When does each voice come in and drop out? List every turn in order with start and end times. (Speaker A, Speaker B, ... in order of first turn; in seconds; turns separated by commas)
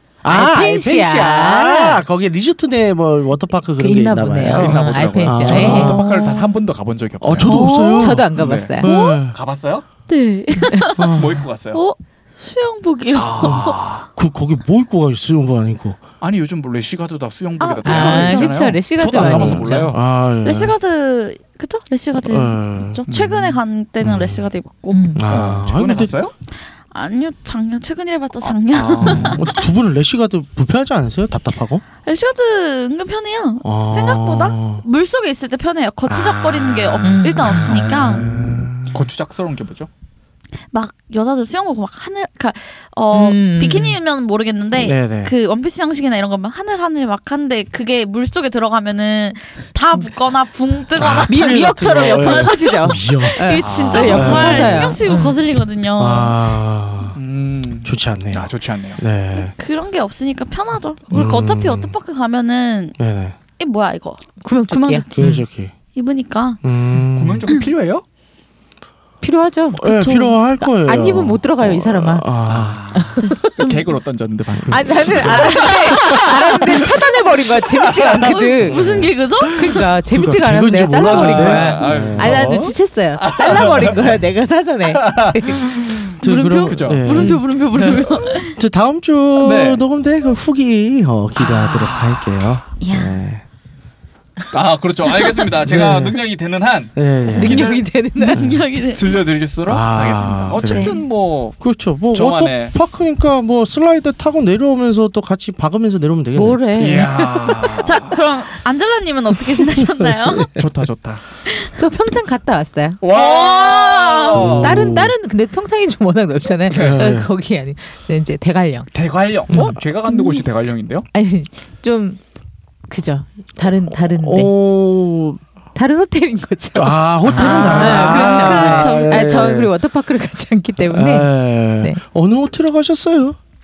Speaker A: 0.2-6.0, Speaker B: 0.2-2.0, Speaker B: 3.8-6.1, Speaker C: 4.5-9.8, Speaker D: 5.7-6.5, Speaker A: 7.2-9.4, Speaker D: 7.4-8.2, Speaker B: 8.0-8.9, Speaker D: 8.8-9.2, Speaker D: 10.1-13.8, Speaker B: 10.6-10.9, Speaker A: 10.9-11.5, Speaker C: 11.1-11.8, Speaker C: 13.2-13.9, Speaker A: 13.2-16.0, Speaker C: 16.2-20.0, Speaker D: 17.6-18.7, Speaker B: 17.8-19.9, Speaker A: 19.1-20.8, Speaker D: 20.4-25.0, Speaker A: 22.1-23.0, Speaker C: 23.1-23.6, Speaker A: 24.0-24.5, Speaker B: 24.9-25.2, Speaker A: 25.1-26.2, Speaker C: 25.3-26.3, Speaker D: 26.9-29.7, Speaker C: 28.7-29.4, Speaker A: 28.9-31.8, Speaker D: 32.0-38.3, Speaker A: 33.6-34.8, Speaker A: 36.1-39.0, Speaker B: 37.0-37.6, Speaker C: 37.6-39.9, Speaker D: 40.7-56.4, Speaker B: 43.1-44.0, Speaker A: 44.8-45.3, Speaker A: 51.0-55.0, Speaker B: 51.3-55.4, Speaker C: 53.6-54.8, Speaker A: 56.0-57.2, Speaker C: 57.1-59.0, Speaker A: 57.8-59.5, Speaker D: 59.3-63.0, Speaker A: 61.1-62.0, Speaker A: 63.0-63.4, Speaker D: 63.6-65.2, Speaker B: 64.4-65.5, Speaker A: 65.1-65.7, Speaker D: 65.9-66.6, Speaker A: 66.6-67.5, Speaker C: 67.0-68.0, Speaker B: 69.2-70.0, Speaker A: 69.8-73.1, Speaker D: 69.8-70.4, Speaker B: 70.6-72.3, Speaker C: 72.4-77.0, Speaker B: 73.0-73.6, Speaker D: 73.6-73.9, Speaker A: 74.6-76.2, Speaker B: 74.7-79.0, Speaker D: 75.4-76.6, Speaker C: 77.6-78.9, Speaker D: 78.1-79.8, Speaker A: 78.6-79.1, Speaker B: 79.5-85.7, Speaker A: 80.1-82.7, Speaker C: 80.9-84.2, Speaker C: 84.9-87.0, Speaker A: 86.2-87.4, Speaker D: 86.2-88.6, Speaker B: 87.1-88.0, Speaker A: 88.4-93.4, Speaker C: 89.4-89.8, Speaker C: 91.7-92.2, Speaker D: 92.8-93.2, Speaker C: 94.5-97.8, Speaker A: 95.6-96.2, Speaker A: 96.9-97.6, Speaker B: 97.3-98.4, Speaker D: 97.5-99.2, Speaker A: 98.3-98.6, Speaker C: 98.8-101.6, Speaker A: 99.6-101.0, Speaker D: 100.5-101.0, Speaker A: 101.6-107.0, Speaker C: 102.1-102.7, Speaker B: 106.3-107.7, Speaker C: 106.7-108.2, Speaker D: 107.6-110.6, Speaker A: 109.7-110.5, Speaker C: 110.5-111.2, Speaker D: 111.5-111.7, Speaker B: 111.7-113.0, Speaker C: 113.0-114.9, Speaker D: 113.1-114.5, Speaker A: 114.3-115.1, Speaker B: 114.5-118.9, Speaker C: 116.7-117.1, Speaker A: 116.7-117.3, Speaker C: 118.9-121.1, Speaker A: 119.5-119.8, Speaker D: 120.1-120.5, Speaker B: 121.1-122.2, Speaker B: 122.9-124.5, Speaker A: 123.9-125.4, Speaker B: 125.7-132.0, Speaker A: 126.7-129.7, Speaker C: 127.2-128.8, Speaker D: 127.3-129.3, Speaker A: 130.8-133.4